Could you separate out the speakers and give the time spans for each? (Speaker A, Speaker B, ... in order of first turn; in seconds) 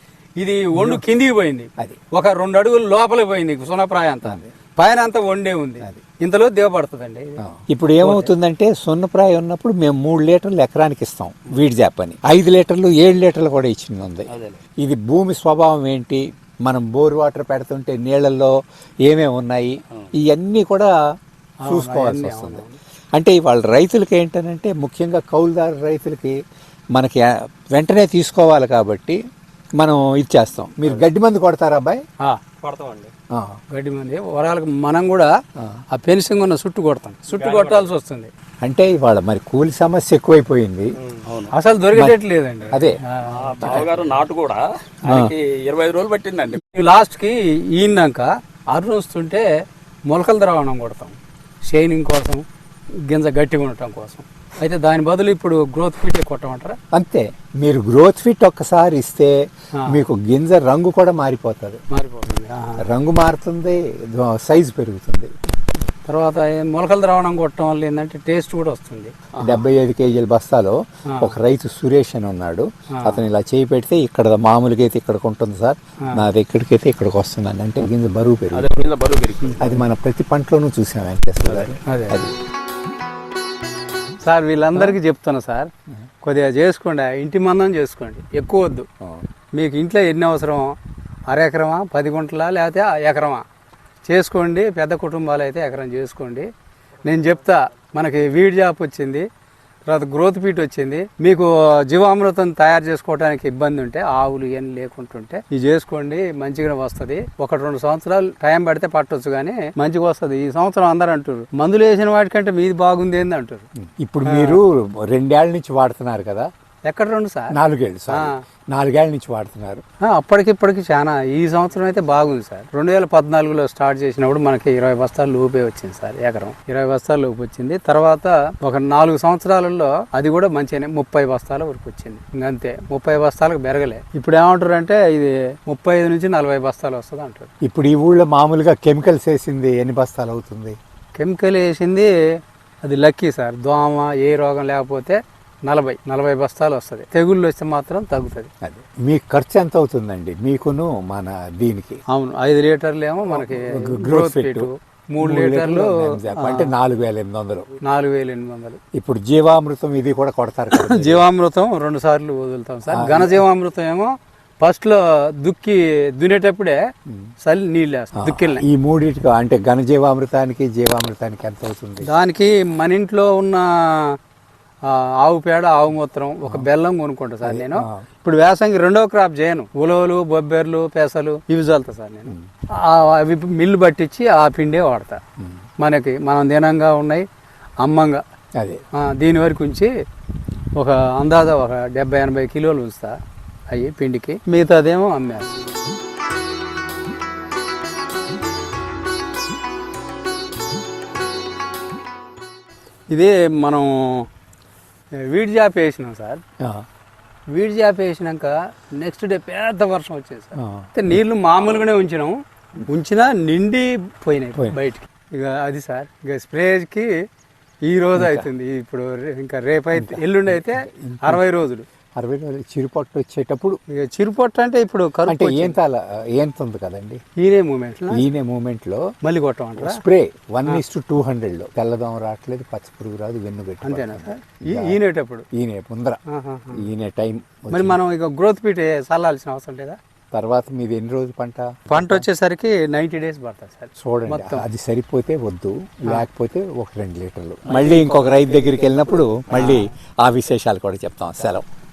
Speaker A: 0.4-7.4, 8.0-8.3, 21.6-22.8, 32.2-32.6, 33.7-35.3, 35.9-38.3, 41.5-44.1, 46.6-49.5, 50.1-51.1, 51.7-52.4, 53.1-56.8, 61.9-62.8, 66.1-69.1, 71.1-71.3, 72.9-73.2, 81.7-82.2, 84.2-85.7, 86.2-88.9, 89.5-90.7, 91.3-93.4, 94.1-96.5, 97.0-99.3, 99.9-113.7, 114.2-114.6, 116.9-117.5, 118.1-118.3, 120.0-137.5, 141.2-142.1, 142.8-148.5, 152.1-156.7, 157.8-158.8, 160.7-166.8, 167.4-168.6, 172.0-174.2, 174.8-185.2, 185.8-187.2, 187.8-188.2, 188.9-189.9, 190.8-193.2, 193.7-195.7, 203.1-204.3, 205.2-206.4, 207.5-217.1, 217.8-221.8, 223.9-225.8, 227.4-228.2, 229.2-230.0, 233.8-235.4, 236.3-236.8, 237.7-240.0, 241.9-244.7, 247.7-248.0, 249.5-249.8
Speaker B: 0.7-1.0, 4.2-4.5, 7.5-14.3, 14.8-18.5, 19.1-20.9, 21.7-22.6, 23.1-26.4, 26.9-29.2, 29.8-32.0, 33.3-33.6, 38.6-40.9, 43.6-43.9, 45.1-45.3, 56.9-59.4, 59.9-61.8, 62.8-65.3, 69.4-78.9, 79.6-82.3, 113.9-116.5, 117.5-119.8, 137.6-140.8, 148.6-152.0, 153.3-154.7, 155.2-157.7, 158.9-161.3, 162.9-163.4, 168.2-172.1, 177.4-178.0, 210.6-210.9, 218.2-218.5, 219.9-221.4, 222.2-223.8, 225.3-227.2, 228.1-229.1, 229.8-235.0, 235.5-236.2, 236.7-238.0, 240.3-242.2, 244.0-251.6
Speaker C: 14.3-14.6, 32.6-33.1, 37.3-37.9, 41.1-41.5, 43.3-46.6, 69.3-69.6, 78.5-79.8, 247.7-248.9